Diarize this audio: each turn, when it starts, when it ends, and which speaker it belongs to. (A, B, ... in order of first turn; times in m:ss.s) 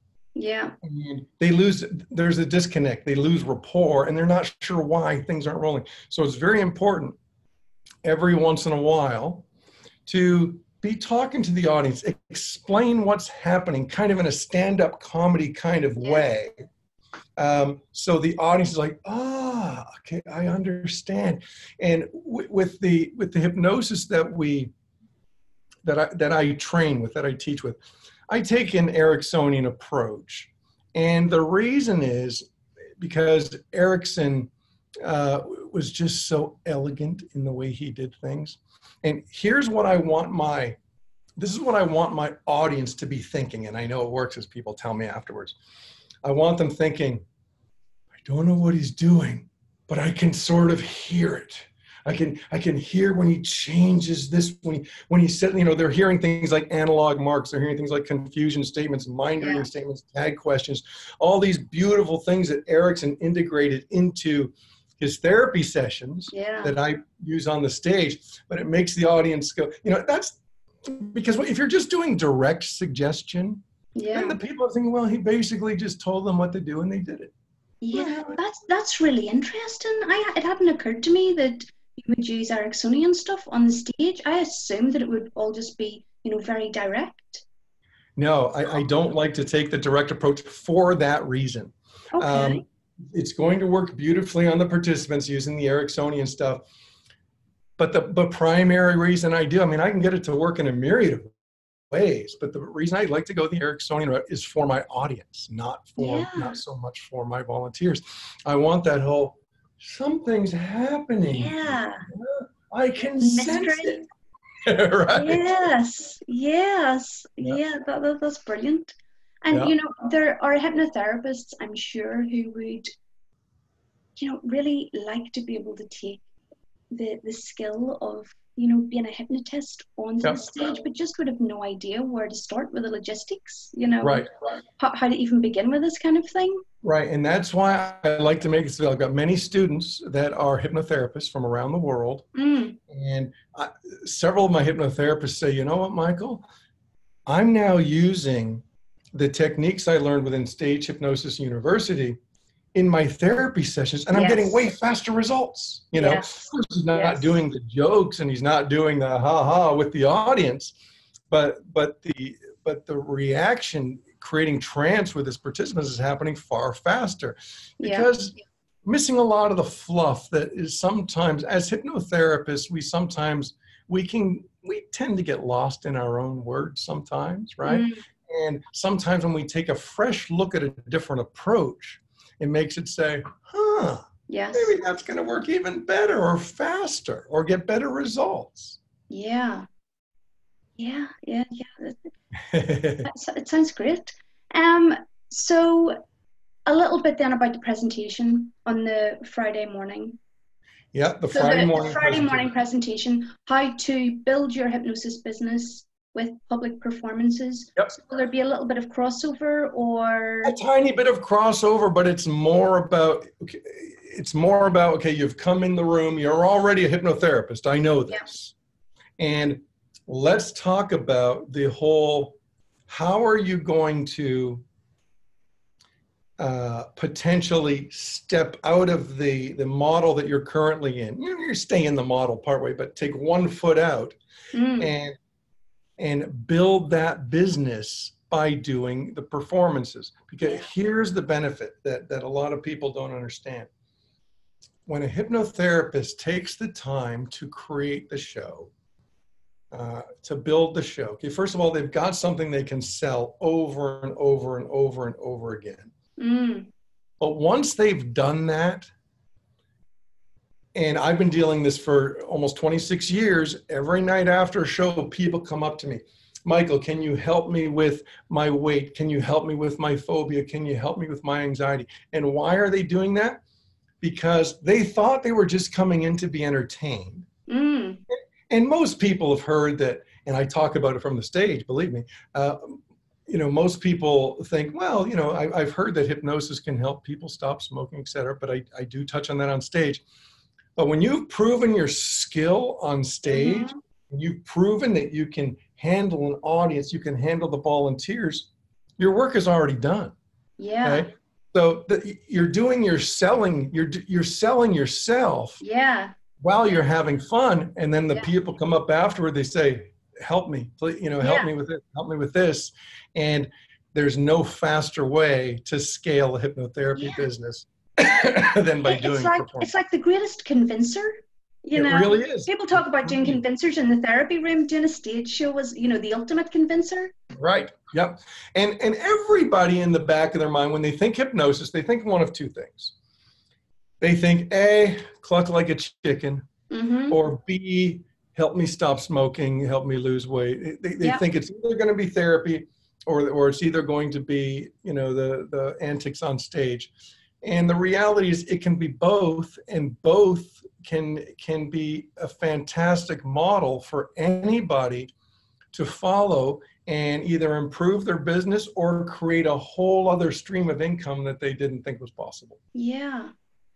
0:00.4-0:00.8 A
0:00.8-0:07.2 B
0:08.0-0:09.4 B
0:10.0-0:16.5 B
0:17.4-0:24.7 B
0:25.8-0:27.8 B
0:28.3-0:32.4 B
0:33.0-0:34.5 B
0:35.0-0:40.8 B
0:41.4-0:45.6 B
0:46.2-0:47.2 B
0:48.2-1:13.6 B
0:59.4-0:59.7 A
1:06.3-1:06.7 A
1:13.9-1:14.4 A
1:14.1-1:17.3 B
1:17.8-1:27.4 A
1:17.9-1:18.4 B
1:28.2-1:36.6 B
1:32.1-1:32.6 A
1:37.8-1:41.2 B
1:41.9-1:54.0 B
1:46.0-1:46.6 A
1:51.3-1:52.1 A
1:53.2-1:54.0 A
1:54.6-1:55.5 B
1:55.1-1:58.9 A
1:59.4-2:02.9 A
2:04.2-2:06.2 A
2:06.9-2:14.2 A
2:14.8-2:16.6 A
2:16.8-2:22.2 B
2:22.3-2:22.8 A
2:22.9-2:26.4 B
2:27.3-2:28.6 B
2:29.1-2:32.2 B
2:32.7-2:40.7 B
2:34.1-2:34.6 A
2:36.0-2:37.4 A
2:41.3-3:08.8 B
2:47.8-2:48.1 A
2:57.6-2:58.0 A
3:04.3-3:04.7 A
3:09.1-3:09.6 A
3:10.8-3:12.1 A
3:12.5-3:13.1 B
3:13.0-3:16.0 A
3:16.6-3:20.2 A
3:20.9-3:22.5 B
3:21.3-3:30.5 A
3:30.4-3:38.5 B
3:39.2-3:44.6 B
3:46.4-3:54.2 B
3:54.5-3:54.9 A
3:54.8-3:55.2 B
3:56.0-4:03.7 B
4:00.4-4:00.7 A
4:04.8-4:08.7 B
4:09.7-4:15.9 B
4:16.2-4:16.7 A
4:17.2-4:18.9 B
4:20.7-4:33.4 B
4:34.0-4:37.3 B
4:37.5-4:38.0 A
4:38.1-4:50.0 B
4:50.8-5:00.1 B
4:53.3-4:53.8 A
5:00.6-5:01.1 A
5:00.8-5:05.6 B
5:05.6-5:06.1 A
5:06.4-5:19.7 B
5:11.2-5:11.5 A
5:16.9-5:17.3 A
5:18.8-5:27.1 A
5:21.7-5:23.4 B
5:27.4-5:32.9 B
5:34.0-5:36.4 B
5:36.7-5:37.2 A
5:37.1-5:46.9 B
5:47.4-5:55.1 B
5:55.7-6:02.6 B
6:02.7-6:03.3 A